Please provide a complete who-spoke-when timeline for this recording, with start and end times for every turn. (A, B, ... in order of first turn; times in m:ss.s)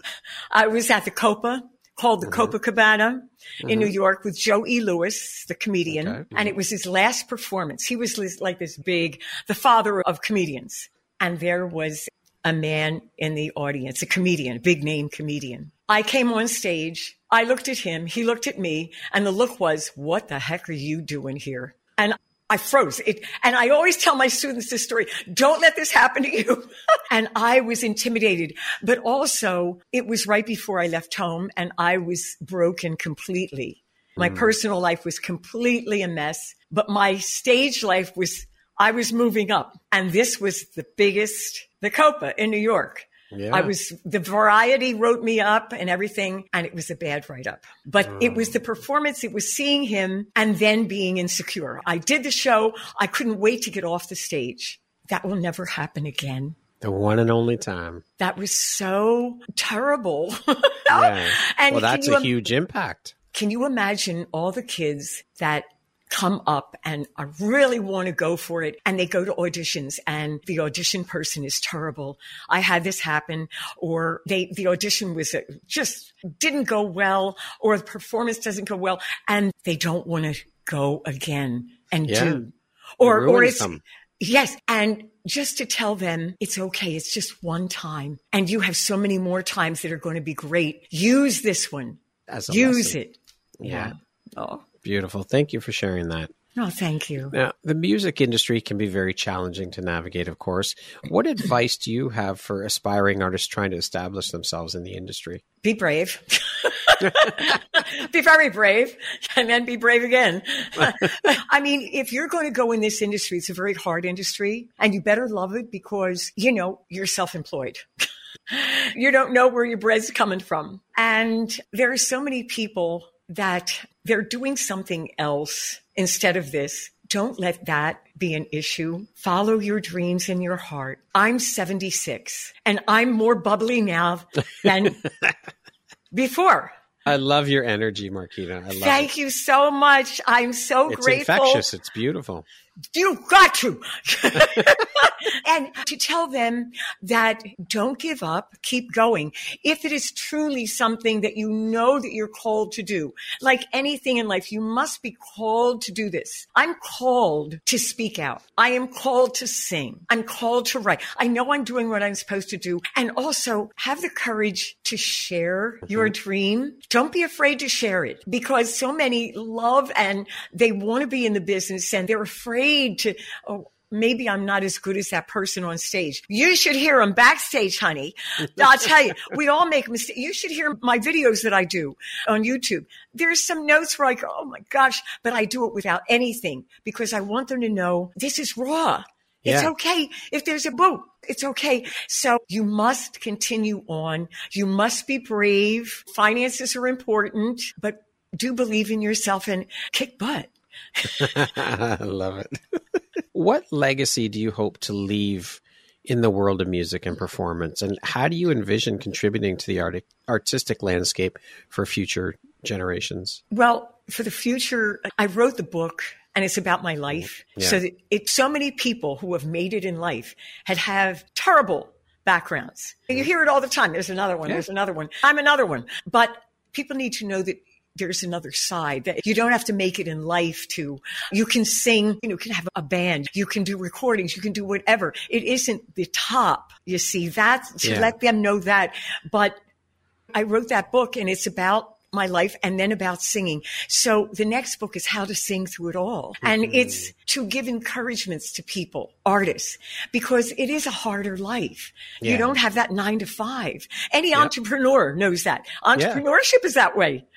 0:00.5-0:56.6 A
0:03.6-0:03.9 B
0:05.9-0:06.5 B
0:34.2-0:34.5 B
0:43.3-0:43.7 B
0:48.1-0:48.5 B
0:56.8-0:58.0 B
0:58.2-1:02.3 A
1:00.9-1:03.1 B
1:03.3-1:34.6 A
1:22.1-1:22.4 B
1:23.0-1:23.8 B
1:32.3-1:33.0 B
1:33.6-1:33.9 B
1:34.8-1:36.3 B
1:36.5-1:37.4 A
1:37.3-1:45.4 B
1:45.6-1:57.8 A
1:58.5-2:15.0 A
2:16.1-2:16.7 A
2:17.0-2:19.1 B
2:18.7-2:21.7 A
2:20.9-2:22.4 B
2:22.9-3:21.3 A
3:09.4-3:09.7 B
3:21.1-3:33.4 B
3:33.5-3:59.6 A
3:57.8-3:58.1 B
4:00.3-4:17.2 A
4:06.4-4:07.1 B
4:12.2-4:12.5 B
4:15.9-4:16.2 B